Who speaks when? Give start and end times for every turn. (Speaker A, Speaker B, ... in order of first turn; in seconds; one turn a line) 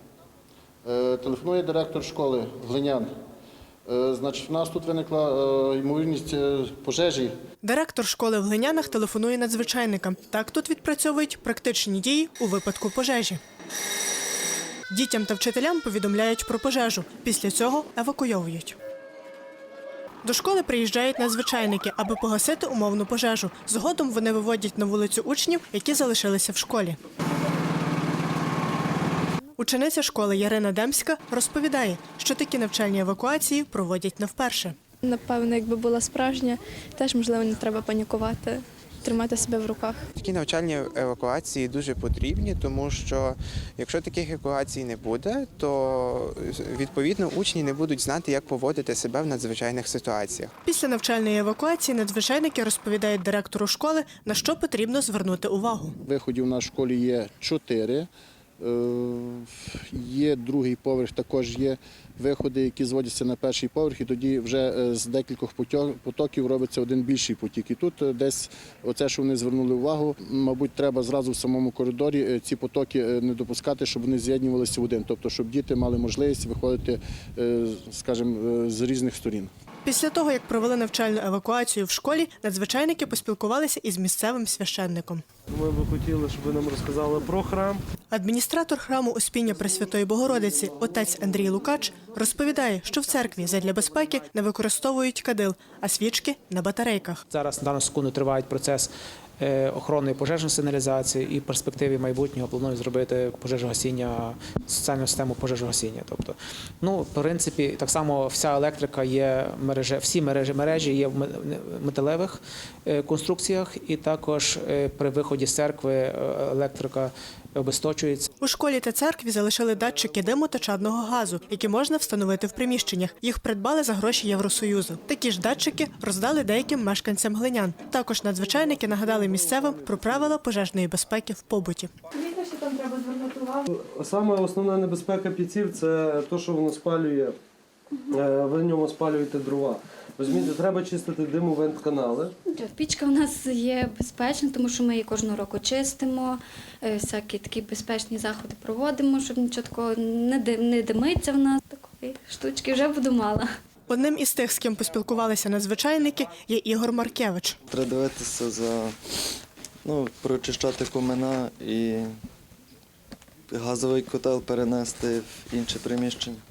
Speaker A: 0.8-3.1
Speaker A: 3.9-7.3
Speaker B: 7.6-13.4
Speaker B: 14.9-18.8
Speaker B: 20.2-27.0
Speaker B: 29.6-34.8
Speaker C: 35.0-40.1
Speaker D: 40.2-50.5
Speaker B: 50.7-56.0
Speaker A: 56.1-58.1
Speaker A: 58.6-79.5
Speaker B: 79.8-85.2
Speaker E: 85.5-87.8
Speaker B: 88.1-97.2
Speaker F: 97.3-118.3
Speaker B: 118.4-131.9
Speaker E: 128.8-130.3
Speaker E: 133.7-137.4
Speaker E: 138.1-142.3
Speaker G: 142.5-153.5
Speaker B: 153.9-157.6
Speaker H: 157.7-162.1
Speaker H: 163.5-166.4